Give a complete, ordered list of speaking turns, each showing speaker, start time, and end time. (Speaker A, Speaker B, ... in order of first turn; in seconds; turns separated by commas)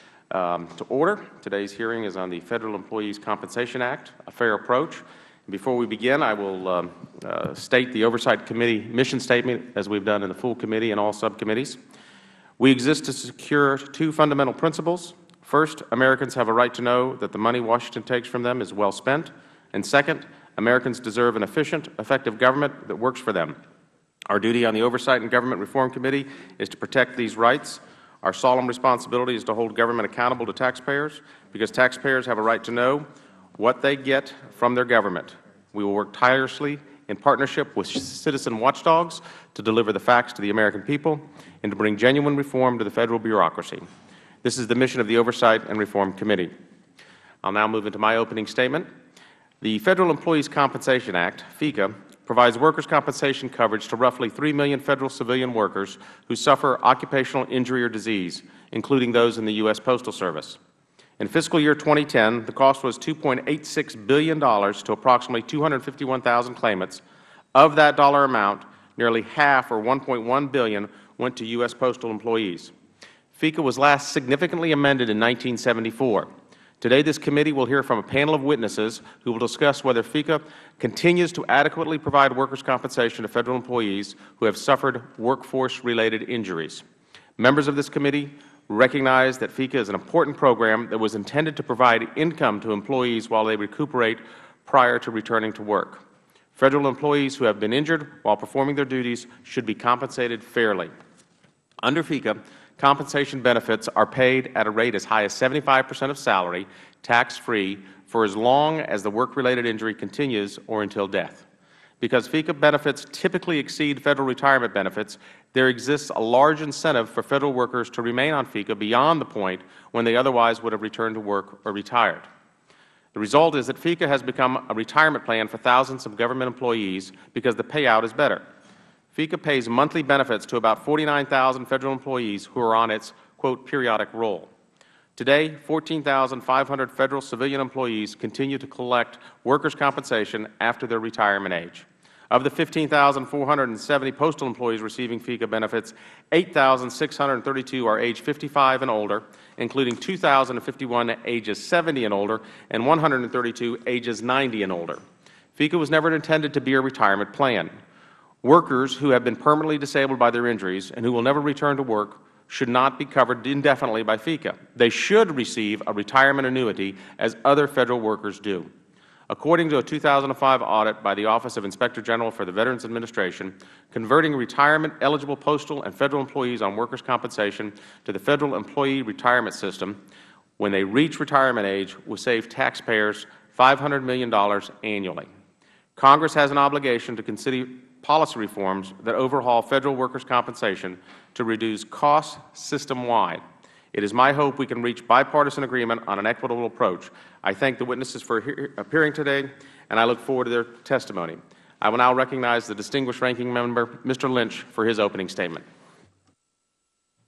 Speaker A: 0.3-11.8, Speaker A: 12.6-23.6, Speaker A: 24.3-43.9, Speaker A: 44.4-46.5, Speaker A: 47.4-48.9, Speaker A: 49.6-60.6, Speaker A: 61.2-67.0, Speaker A: 67.5-72.7, Speaker A: 73.3-86.8, Speaker A: 87.4-96.0, Speaker A: 96.5-100.9, Speaker A: 101.8-111.4, Speaker A: 112.0-122.2, Speaker A: 123.1-128.4, Speaker A: 129.1-134.5, Speaker A: 135.2-155.0, Speaker A: 155.6-157.7, Speaker A: 158.4-168.7, Speaker A: 169.3-180.0, Speaker A: 180.6-185.3, Speaker A: 185.9-205.6